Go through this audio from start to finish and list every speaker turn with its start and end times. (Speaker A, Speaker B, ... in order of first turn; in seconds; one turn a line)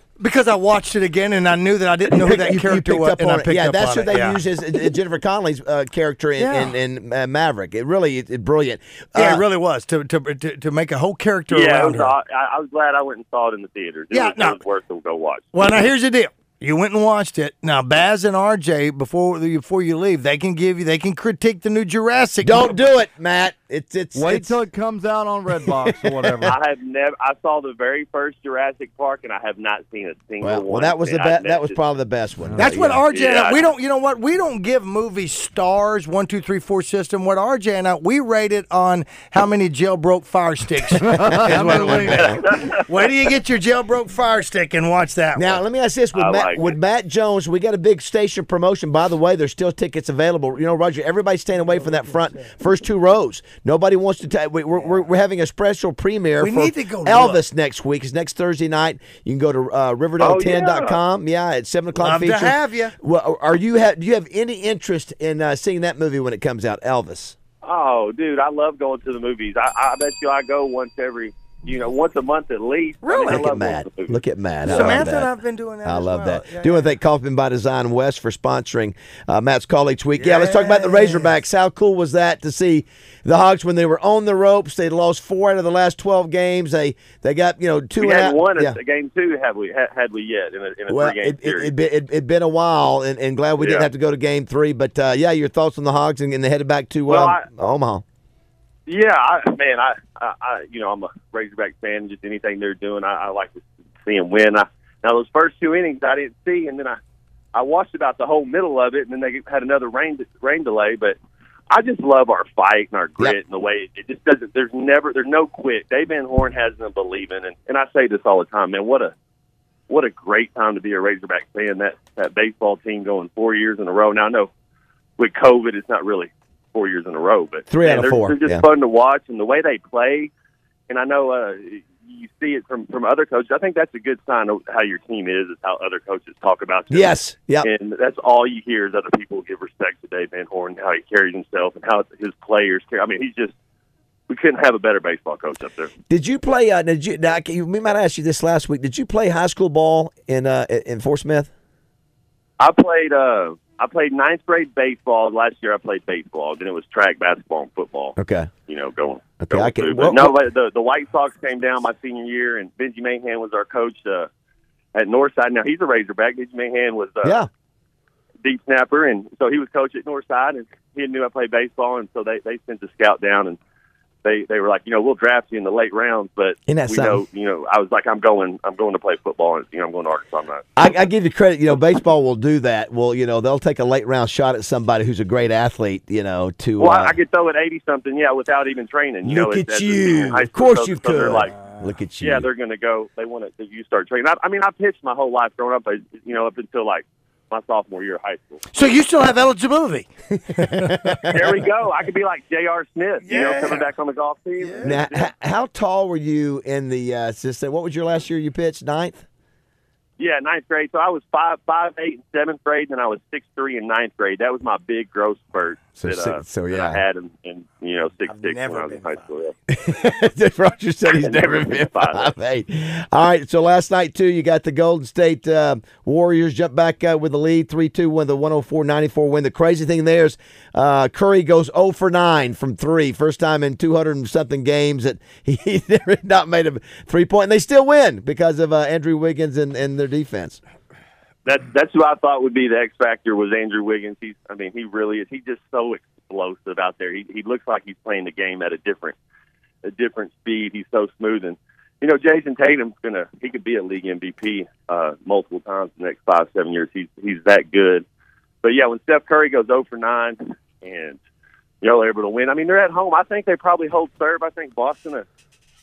Speaker A: 0.2-4.4
Speaker B: 2.1-9.4
Speaker A: 6.4-6.8
Speaker A: 9.1-12.1
Speaker C: 11.5-15.4
Speaker A: 14.1-14.6
Speaker A: 15.5-22.8
Speaker B: 22.4-24.6
Speaker D: 24.1-26.6
Speaker B: 25.6-26.5
Speaker C: 26.4-31.8
Speaker B: 30.4-33.0
Speaker A: 32.6-45.6
Speaker C: 33.1-33.6
Speaker D: 41.0-42.5
Speaker B: 41.3-42.4
Speaker B: 45.3-67.3
Speaker C: 46.1-46.7
Speaker A: 56.4-57.4
Speaker C: 60.2-61.0
Speaker A: 62.0-62.9
Speaker C: 67.6-74.2
Speaker A: 73.0-73.5
Speaker B: 73.1-75.3
Speaker A: 74.7-76.9
Speaker B: 75.8-88.8
Speaker A: 80.1-81.3
Speaker C: 88.0-91.7
Speaker B: 90.9-98.0
Speaker C: 93.6-93.9
Speaker C: 97.1-97.4
Speaker C: 98.9-107.0
Speaker C: 107.5-111.2
Speaker C: 111.7-119.1
Speaker C: 119.9-124.5
Speaker C: 125.2-130.3
Speaker B: 127.7-128.6
Speaker C: 130.9-143.5
Speaker B: 136.9-137.7
Speaker C: 144.3-145.9
Speaker B: 146.1-151.5
Speaker C: 152.6-158.2
Speaker B: 158.2-158.5
Speaker C: 158.7-164.3
Speaker B: 159.4-160.3
Speaker C: 164.9-167.4
Speaker B: 167.2-167.5
Speaker C: 168.4-173.6
Speaker C: 174.2-180.7
Speaker B: 176.7-177.2
Speaker B: 180.8-187.1
Speaker C: 186.8-191.5
Speaker B: 189.2-192.5
Speaker C: 192.2-198.8
Speaker A: 198.7-201.1
Speaker B: 200.8-201.3
Speaker C: 201.3-205.3
Speaker A: 203.2-203.9
Speaker A: 204.6-204.9
Speaker B: 204.8-209.2
Speaker C: 210.2-219.5
Speaker B: 216.0-217.0
Speaker A: 218.3-219.2
Speaker B: 219.7-240.6
Speaker C: 221.2-222.3
Speaker C: 241.4-249.2
Speaker C: 249.8-258.0
Speaker C: 258.6-261.2
Speaker C: 261.8-265.2